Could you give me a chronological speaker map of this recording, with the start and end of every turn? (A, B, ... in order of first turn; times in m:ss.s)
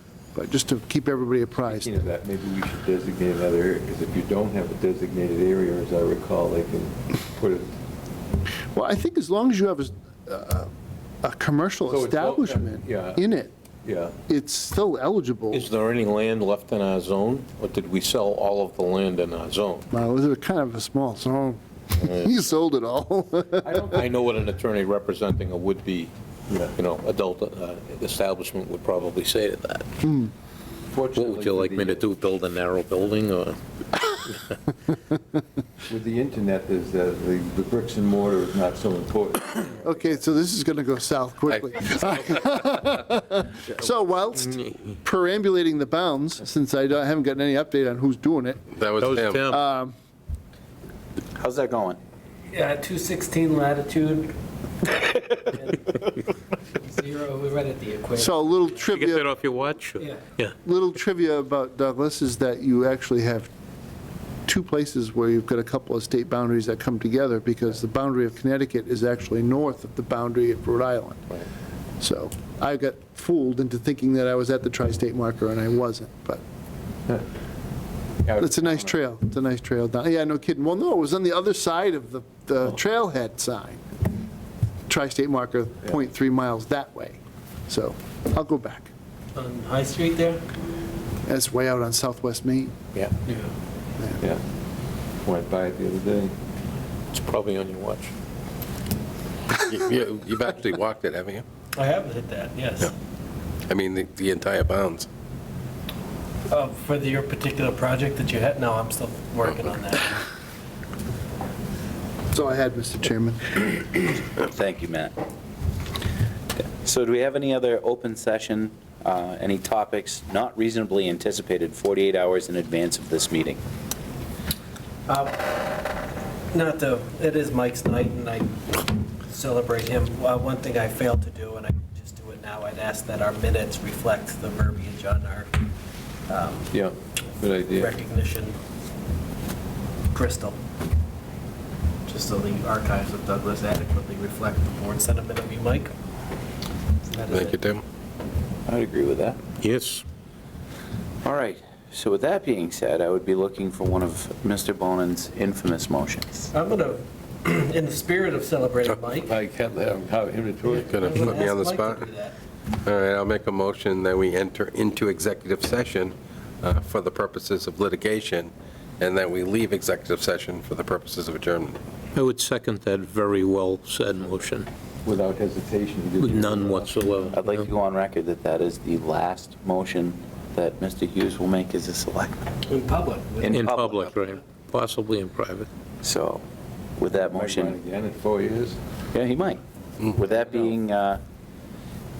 0:00.3-0:01.9 A
0:01.7-0:07.7 B
0:08.7-0:10.7 A
0:11.2-0:13.5 A
0:11.9-0:13.2 B
0:13.8-0:14.1 B
0:14.2-0:15.7 A
0:15.5-0:19.9 C
0:19.9-0:24.0 A
0:23.6-0:24.0 B
0:23.9-0:26.1 C
0:26.5-0:26.7 B
0:26.8-0:29.9 C
0:30.0-0:30.3 A
0:30.9-0:32.0 B
0:31.1-0:33.6 C
0:35.9-0:39.8 B
0:39.8-0:48.6 A
0:42.0-0:42.5 D
0:48.7-0:49.4 D
0:49.0-0:49.6 C
0:49.5-0:49.9 A
0:51.4-0:52.0 E
0:52.5-0:54.3 F
0:54.8-0:56.2 F
0:56.7-0:58.6 F
0:58.2-0:59.3 A
0:58.9-1:00.5 C
1:00.6-1:03.5 A
1:04.4-1:11.4 A
1:12.0-1:16.4 A
1:18.2-1:18.9 B
1:18.4-1:23.8 A
1:24.9-1:28.9 A
1:29.4-1:30.4 F
1:31.2-1:32.7 A
1:35.2-1:36.3 B
1:37.1-1:38.1 C
1:39.5-1:41.4 D
1:41.8-1:42.9 F
1:43.7-1:45.1 D
1:46.5-1:50.2 F
1:52.3-1:53.8 A
1:54.4-1:55.1 E
1:56.8-2:03.6 E
2:05.1-2:05.4 F
2:06.5-2:15.7 F
2:16.3-2:16.7 F
2:16.7-2:17.9 B
2:17.6-2:18.5 F
2:20.1-2:20.6 F
2:22.0-2:25.9 F
2:27.1-2:27.6 F
2:27.3-2:27.8 D
2:28.7-2:29.4 E
2:29.6-2:30.0 C
2:31.2-2:36.5 E
2:36.5-2:39.3 F
2:39.2-2:40.9 B
2:40.6-2:42.4 F
2:40.8-2:42.1 D
2:42.8-2:51.8 D
2:52.1-2:54.7 C
2:55.0-2:57.1 B
2:56.2-2:57.6 C
2:57.3-3:02.4 E
3:02.7-3:03.8 F
3:03.4-3:04.1 E
3:03.5-3:05.7 C
3:06.0-3:06.4 E
3:07.0-3:07.8 E
3:07.2-3:08.8 B
3:09.1-3:09.6 E
3:10.1-3:11.2 E